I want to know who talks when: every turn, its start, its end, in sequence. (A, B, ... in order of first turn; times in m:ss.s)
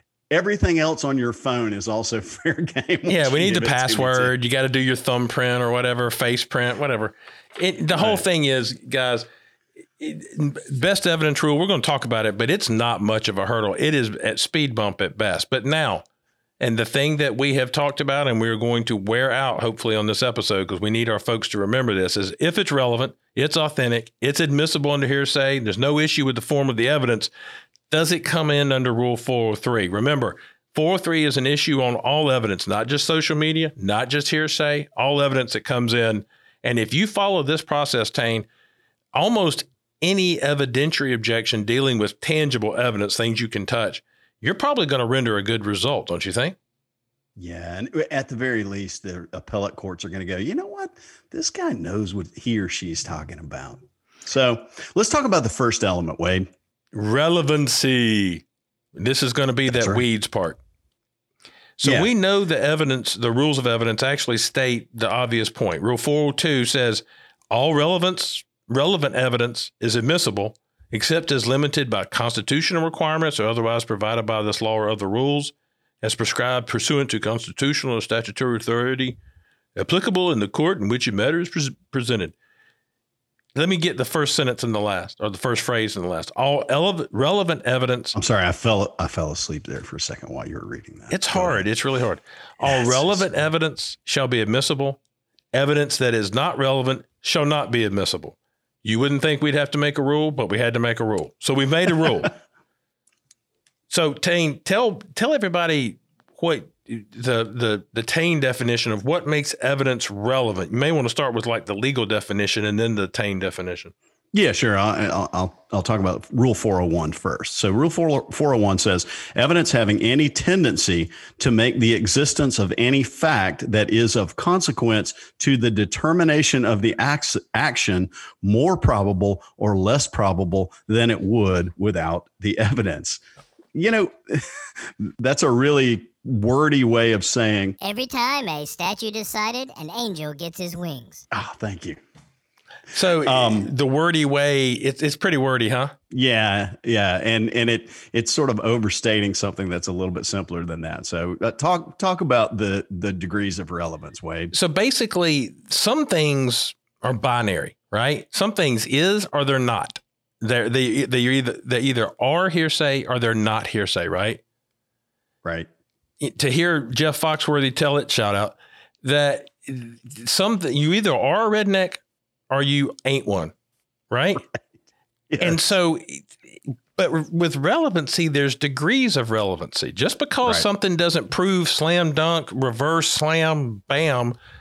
0:00.3-0:04.3 A
0:03.1-0:09.2 B
0:07.9-0:08.2 A
0:10.0-0:16.0 B
0:16.6-0:27.3 B
0:27.9-0:38.5 B
0:39.1-0:46.6 B
0:47.4-0:56.5 A
0:56.9-0:58.4 B
0:58.9-1:00.6 B
0:59.7-1:00.0 A
1:01.8-1:19.2 B
1:01.8-1:02.1 A
1:19.8-1:22.3 B
1:23.5-1:28.1 B
1:28.1-1:31.6 A
1:31.1-1:35.0 B
1:32.6-1:33.4 A
1:35.5-1:42.3 B
1:43.9-1:53.9 B
1:54.3-2:13.2 A
2:13.7-2:17.8 A
2:17.8-2:21.2 C
2:21.3-2:22.0 A
2:22.9-2:25.9 B
2:23.0-2:23.7 A
2:26.1-2:34.5 A
2:34.5-2:44.4 B
2:46.2-2:53.5 B
2:54.1-2:54.4 B
2:55.3-2:55.7 A
2:55.4-3:04.4 B